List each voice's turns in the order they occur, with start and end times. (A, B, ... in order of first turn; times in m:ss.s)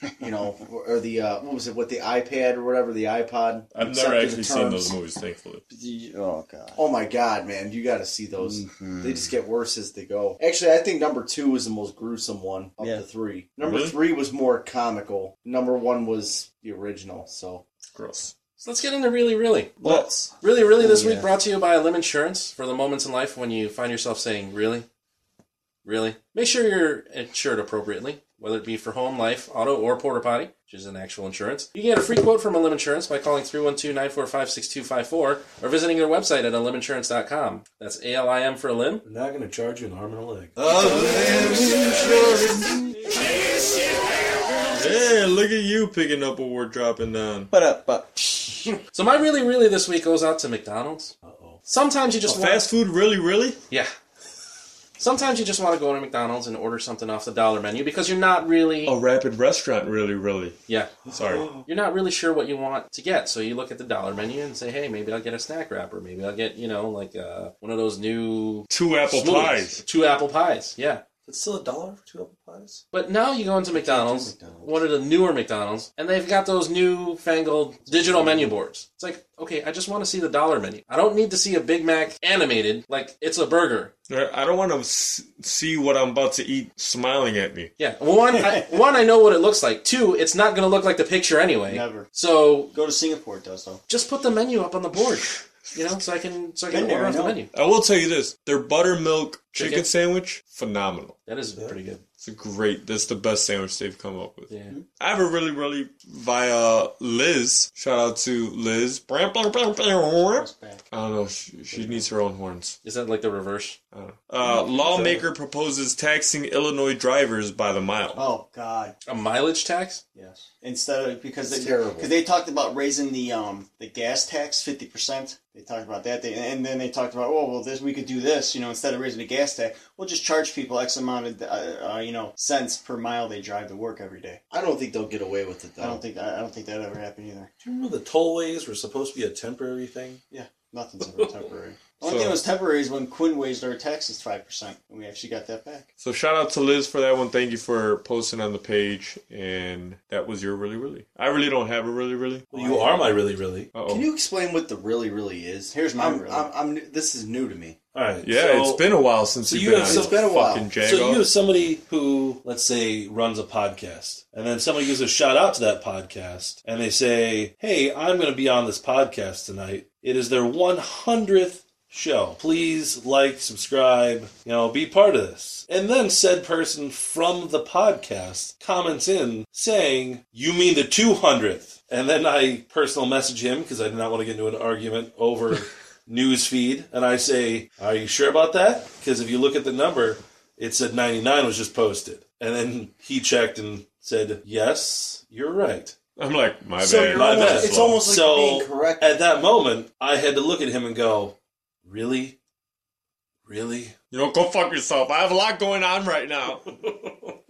0:00.2-0:04.9 A
0:03.7-0:05.6 B
0:05.7-0:06.8 C
0:06.7-0:17.6 A
0:08.4-0:09.3 C
0:13.6-0:14.0 B
0:17.9-0:18.3 B
0:18.6-0:24.8 D
0:19.8-0:20.2 B
0:20.8-0:21.3 C
0:25.8-0:39.0 D
0:39.0-0:42.5 E
0:40.6-0:42.9 B
0:44.7-0:47.5 B
0:47.5-0:48.8 C
0:48.7-0:51.1 D
0:51.2-0:51.6 E
0:51.6-0:52.6 D
0:52.3-0:53.6 B
0:55.0-0:58.9 D
0:58.8-1:00.6 B
1:00.7-1:00.9 D
1:01.0-1:01.7 E
1:01.1-1:01.5 B
1:01.6-1:11.0 D
1:08.7-1:09.8 B
1:11.2-1:12.8 E
1:12.9-1:23.9 D
1:13.8-1:14.8 A
1:24.1-1:27.7 B
1:27.8-1:32.7 D
1:28.3-1:28.6 C
1:31.6-1:32.1 C
1:32.7-1:33.8 C
1:33.9-1:37.5 D
1:36.7-1:37.4 C
1:37.5-1:41.2 B
1:39.5-1:39.9 D
1:41.2-1:42.0 D
1:42.2-1:52.8 B
1:44.5-1:44.7 D
1:50.3-1:50.8 C
1:51.7-1:52.1 C
1:52.8-1:53.8 D
1:53.9-1:58.2 B
1:54.8-1:55.2 C
1:58.1-1:59.0 C
1:59.0-2:00.0 D
2:00.1-2:14.4 C
2:01.4-2:02.1 A
2:14.5-2:16.0 A
2:15.8-2:17.5 C
2:17.6-2:20.2 E
2:20.3-2:25.8 C
2:21.0-2:21.3 E
2:22.0-2:22.3 E
2:26.0-2:32.4 B
2:32.5-2:33.7 E
2:32.5-2:33.0 C
2:33.7-2:34.1 B
2:33.9-2:37.8 A
2:35.7-2:36.5 C
2:37.9-2:38.8 E
2:38.2-2:41.3 B
2:39.5-2:40.2 E
2:39.8-2:40.7 A
2:40.8-3:15.9 E
3:16.2-3:18.1 B
3:16.8-3:19.2 A
3:17.0-3:22.4 E
3:23.4-3:23.9 E
3:24.1-3:26.7 B
3:26.9-3:27.3 E